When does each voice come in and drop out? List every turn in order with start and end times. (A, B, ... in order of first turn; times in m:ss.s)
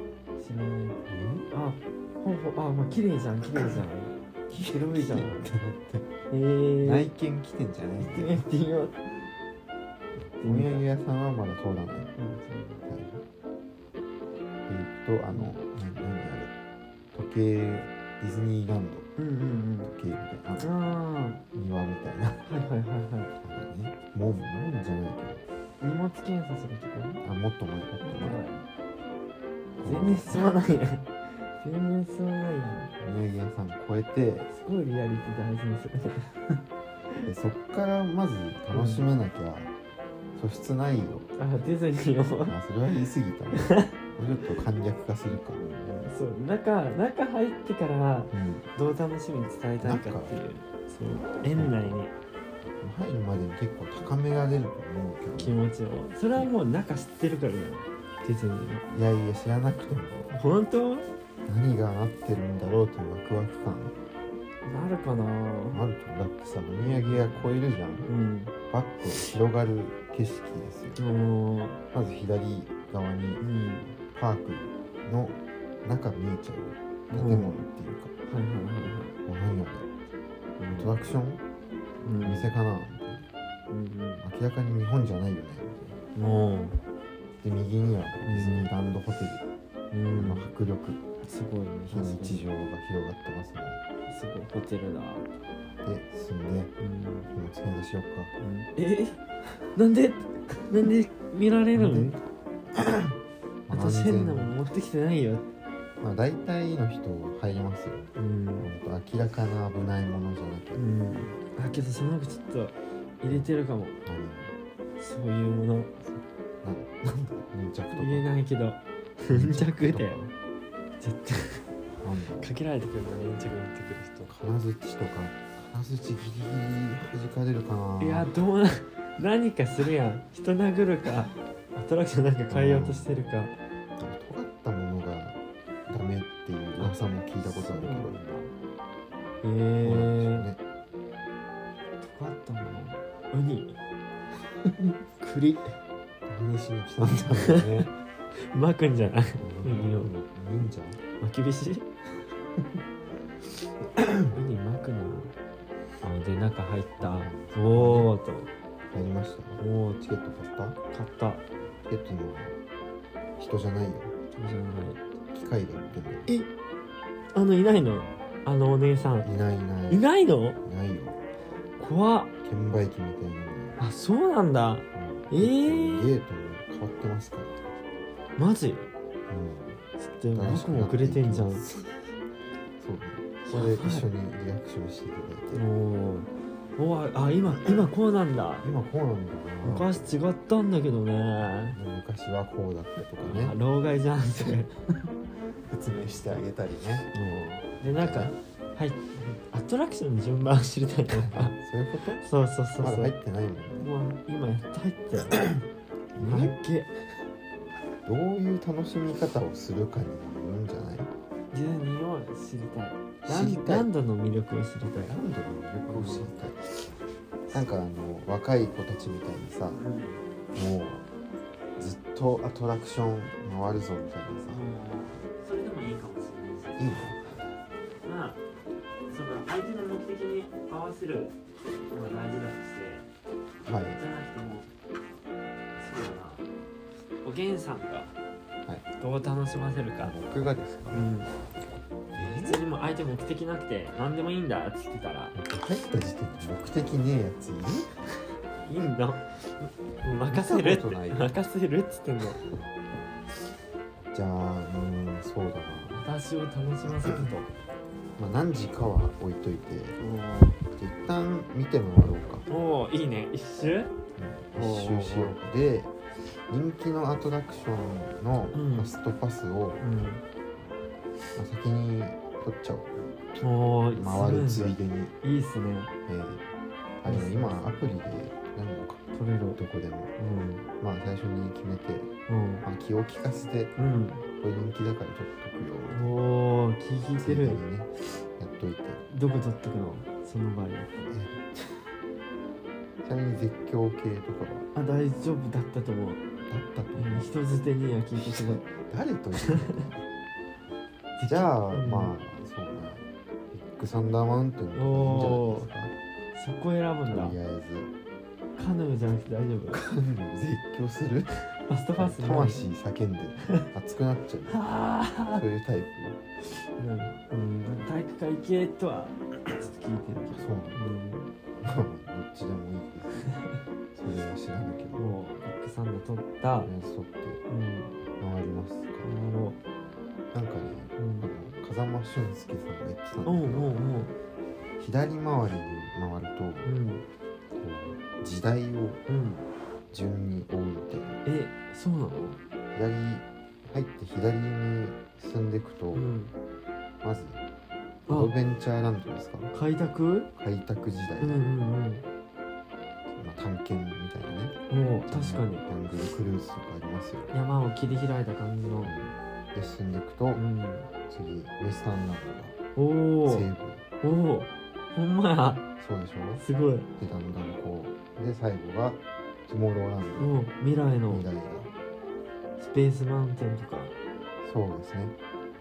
0:00.4-0:05.5 A
0:01.1-0:01.5 B
0:04.5-0:06.1 B
0:06.3-0:07.1 A
0:06.8-0:08.5 B
0:08.0-0:09.2 A
0:10.4-0:10.9 A
0:10.4-0:12.1 B
0:12.2-0:12.9 A
0:12.9-0:13.2 B
0:14.7-0:16.5 B
0:17.1-0:19.1 B
0:19.2-0:19.9 A
0:19.8-0:20.7 B
0:20.6-0:21.4 A
0:21.5-0:22.5 B
0:22.4-0:23.3 A
0:23.4-0:25.4 B
0:25.8-0:27.2 A
0:27.2-0:28.4 B
0:28.0-0:28.6 A
0:29.8-0:30.5 B
0:29.8-0:32.9 A
0:33.0-0:34.5 B
0:34.5-0:36.3 A
0:37.2-0:39.7 B
0:38.7-0:39.1 A
0:40.4-0:41.3 B
0:41.4-0:42.6 A
0:42.4-0:45.6 B
0:43.6-0:43.9 A
0:45.3-0:52.1 A
0:48.3-0:48.7 B
0:49.8-0:50.4 B
0:51.5-0:52.0 B
0:52.8-0:55.6 B
0:55.4-0:58.9 A
0:58.9-1:00.3 B
1:00.3-1:01.1 A
1:01.5-1:04.0 B
1:04.6-1:05.8 A
1:05.7-1:08.1 B
1:06.8-1:07.5 A
1:08.1-1:08.5 A
1:08.7-1:11.0 B
1:11.0-1:11.8 A
1:11.9-1:13.4 B
1:13.4-1:14.0 A
1:14.1-1:18.1 B
1:17.1-1:17.6 A
1:18.3-1:19.2 A
1:19.3-1:19.9 B
1:20.6-1:20.9 A
1:20.7-1:21.4 B
1:22.0-1:22.5 A
1:22.2-1:23.3 B
1:23.7-1:24.2 A
1:24.2-1:26.0 B
1:26.2-1:26.8 A
1:27.4-1:29.4 B
1:28.2-1:28.7 A
1:29.9-1:30.5 A
1:30.2-1:31.0 B
1:31.2-1:32.4 A
1:31.9-1:33.8 B
1:34.1-1:35.3 A
1:35.8-1:36.7 B
1:36.8-1:37.3 A
1:37.3-1:38.3 B
1:38.4-1:39.2 A
1:39.8-1:42.2 A
1:41.7-1:42.2 B
1:42.8-1:43.1 B
1:43.7-1:45.5 A
1:43.7-1:44.6 B
1:46.0-1:50.9 B
1:48.2-1:48.7 A
1:50.8-1:54.0 A
1:54.0-1:54.6 B
1:55.0-1:55.9 A
1:56.0-1:58.3 B
1:57.9-2:00.2 A
1:59.3-2:00.3 B
2:01.0-2:01.6 A
2:02.0-2:02.5 B
2:02.4-2:04.3 A
2:04.3-2:08.3 B
2:08.0-2:13.5 A
2:12.5-2:13.2 B
2:14.0-2:18.2 B
2:16.8-2:18.5 A
2:19.4-2:20.5 A
2:19.8-2:20.6 B
2:22.0-2:23.8 A
2:25.2-2:25.8 A
2:26.3-2:27.9 B
2:27.3-2:27.6 A
2:28.4-2:30.1 A
2:29.4-2:31.0 B
2:31.2-2:31.9 A
2:34.0-2:34.4 B
2:34.3-2:35.3 A
2:36.0-2:38.5 A
2:37.0-2:38.1 B
2:38.9-2:40.8 B
2:39.6-2:40.0 A
2:40.9-2:41.4 A
2:41.9-2:42.6 B
2:43.4-2:44.1 B
2:44.3-2:45.0 A
2:45.3-2:46.3 B
2:47.3-2:49.3 A
2:49.2-2:50.1 B
2:49.9-2:50.6 A
2:50.6-2:51.2 B
2:51.8-2:52.3 A
2:52.4-2:53.8 B
2:53.8-2:56.1 A
2:55.0-2:57.6 B
2:58.4-2:58.9 A
2:59.3-2:59.8 B
3:00.0-3:01.6 A
3:00.3-3:01.9 B
3:02.8-3:05.6 B
3:03.5-3:04.1 A
3:05.5-3:08.7 A
3:07.4-3:07.9 B
3:08.6-3:10.2 B
3:09.6-3:11.8 A
3:11.4-3:13.6 B
3:13.2-3:14.7 A
3:15.7-3:17.1 B
3:17.1-3:21.5 A
3:17.9-3:18.4 B
3:21.1-3:22.2 B
3:22.2-3:23.1 A
3:22.8-3:23.9 B
3:23.8-3:25.4 A
3:25.3-3:25.6 B
3:26.1-3:26.6 B
3:26.2-3:26.9 A
3:28.0-3:31.1 B
3:31.5-3:35.2 A
3:33.2-3:33.9 B
3:35.0-3:36.8 B
3:35.9-3:36.3 A
3:37.5-3:39.8 B
3:39.7-3:40.2 A
3:40.5-3:41.1 B
3:41.8-3:44.7 B
3:44.5-3:47.2 A
3:46.8-3:47.4 B
3:48.0-3:48.4 A
3:49.1-3:51.4 A
3:51.9-3:53.1 A
3:53.6-3:54.0 B
3:54.0-3:54.7 A
3:55.8-3:56.5 A
3:57.2-3:58.1 A
3:59.0-4:00.2 A
4:00.0-4:01.0 B
4:00.9-4:01.3 A
4:02.1-4:02.6 B
4:02.2-4:05.3 A
4:05.3-4:07.9 B
4:08.6-4:12.4 A
4:10.3-4:11.3 B
4:14.1-4:16.1 B
4:15.9-4:17.5 A
4:18.2-4:20.0 B
4:20.0-4:20.6 A
4:20.7-4:22.5 B
4:22.5-4:23.9 A
4:24.2-4:26.0 B
4:24.6-4:25.4 A
4:26.5-4:29.8 B
4:28.5-4:28.9 A
4:29.8-4:30.2 A
4:31.4-4:33.0 B
4:33.4-4:35.9 A
4:34.0-4:35.1 B
4:36.1-4:36.4 B
4:37.0-4:39.0 B
4:37.1-4:37.8 A
4:39.1-4:39.6 A
4:39.6-4:40.1 B
4:40.2-4:40.7 A
4:40.8-4:42.1 B
4:42.3-4:42.7 A
4:42.6-4:43.7 B
4:43.8-4:44.3 A
4:44.4-4:46.3 B
4:45.9-4:47.6 A
4:47.2-4:49.0 B
4:49.1-4:51.1 A
4:51.1-4:51.4 B
4:53.0-4:54.7 B
4:54.8-4:56.2 A
4:56.5-4:57.3 B
4:57.0-4:58.7 A
4:58.1-4:59.9 B
5:01.2-5:02.2 A
5:01.3-5:05.9 B
5:04.8-5:05.7 A
5:06.3-5:07.4 A
5:07.1-5:07.9 B
5:08.6-5:09.8 A
5:09.7-5:11.4 B
5:11.7-5:12.6 A
5:12.0-5:14.6 B
5:14.5-5:15.4 A
5:15.3-5:16.2 B
5:16.8-5:21.3 A
5:20.3-5:20.9 B
5:21.6-5:23.3 B
5:23.9-5:25.0 B
5:24.9-5:26.7 A
5:26.6-5:27.4 B
5:27.5-5:28.0 A
5:28.2-5:29.2 B
5:29.0-5:29.6 A
5:30.3-5:33.8 B
5:31.0-5:31.3 A
5:33.2-5:34.1 A
5:34.8-5:36.7 B
5:36.6-5:37.0 A
5:37.6-5:39.0 B
5:39.1-5:39.5 A
5:39.9-5:41.2 B
5:41.2-5:42.4 A
5:42.7-5:46.1 B
5:45.9-5:46.3 A
5:47.0-5:47.4 B
5:48.1-5:48.4 A
5:48.1-5:49.5 B
5:49.5-5:50.3 A
5:50.4-5:51.4 B
5:51.2-5:52.1 A
5:53.1-5:54.6 B
5:54.7-5:55.7 A
5:55.1-5:57.3 B
5:57.3-5:58.9 A
5:58.8-6:00.4 B
6:00.4-6:00.9 A
6:01.1-6:02.6 B
6:02.8-6:03.5 A
6:03.3-6:03.8 B
6:04.0-6:05.7 A
6:05.8-6:06.4 B
6:06.4-6:06.9 A
6:07.0-6:10.4 B
6:10.2-6:11.3 A
6:11.1-6:11.7 B
6:12.6-6:14.0 A
6:14.4-6:15.2 B